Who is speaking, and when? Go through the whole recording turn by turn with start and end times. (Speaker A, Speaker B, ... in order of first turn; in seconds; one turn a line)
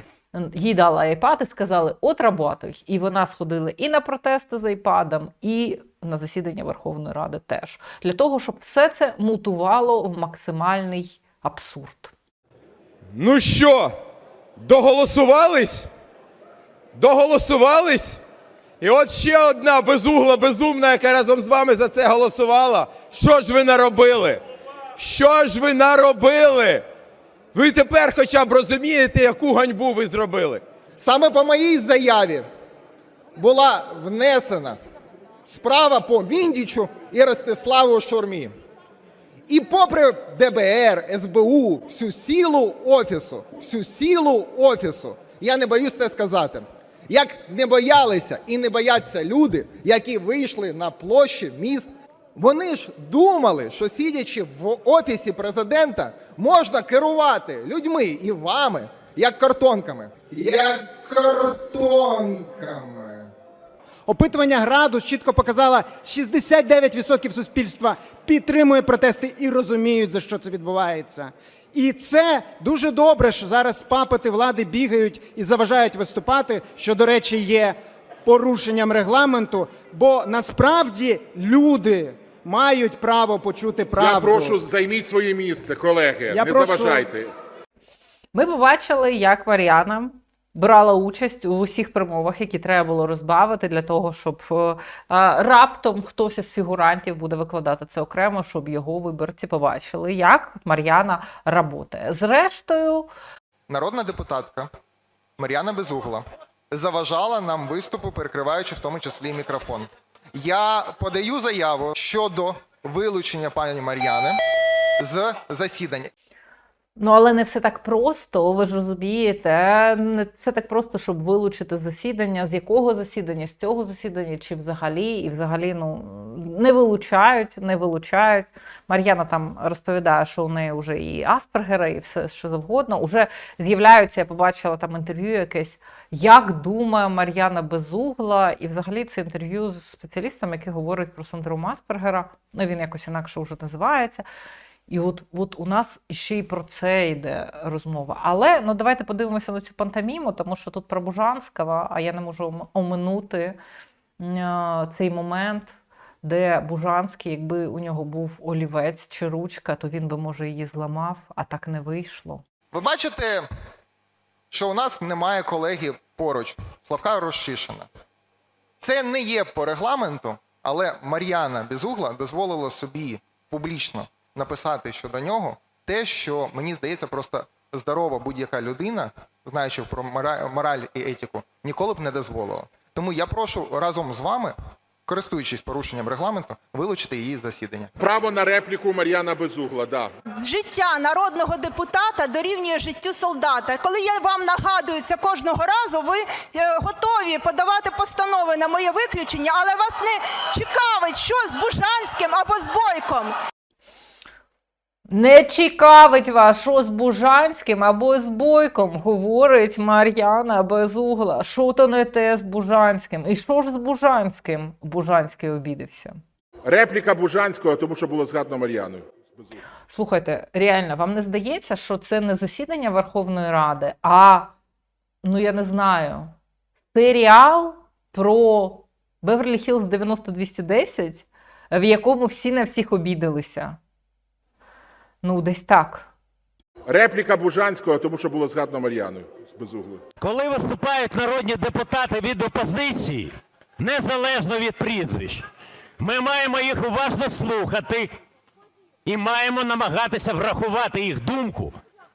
Speaker A: 0.3-12.1
Speaker B: 13.1-13.9
Speaker B: 14.6-15.9
Speaker B: 16.9-18.2
Speaker B: 18.8-24.4
Speaker B: 25.0-26.9
Speaker B: 27.5-30.6
Speaker C: 31.0-32.5
Speaker C: 33.4-34.8
Speaker C: 35.5-38.5
Speaker C: 39.5-63.3
Speaker D: 65.0-65.3
Speaker D: 73.5-77.7
Speaker D: 78.3-79.6
Speaker D: 80.1-82.0
Speaker D: 82.5-84.5
Speaker E: 84.0-87.3
Speaker A: 88.3-103.1
Speaker C: 103.7-104.7
Speaker C: 105.4-114.4
Speaker C: 115.0-116.1
Speaker A: 117.0-144.2
Speaker A: 144.9-153.6
Speaker A: 154.2-162.4
Speaker C: 162.7-163.5
Speaker C: 164.5-167.9
Speaker C: 168.8-184.6
Speaker C: 185.1-187.9
Speaker E: 188.0-190.1
Speaker F: 190.3-203.3
Speaker A: 205.1-216.2
Speaker E: 216.7-219.0
Speaker A: 219.9-224.5
Speaker A: 225.2-226.3
Speaker A: 226.9-233.8
Speaker A: 235.2-236.1
Speaker E: 236.9-240.0
Speaker G: 240.2-245.4
Speaker G: 246.0-248.1
Speaker G: 249.1-251.8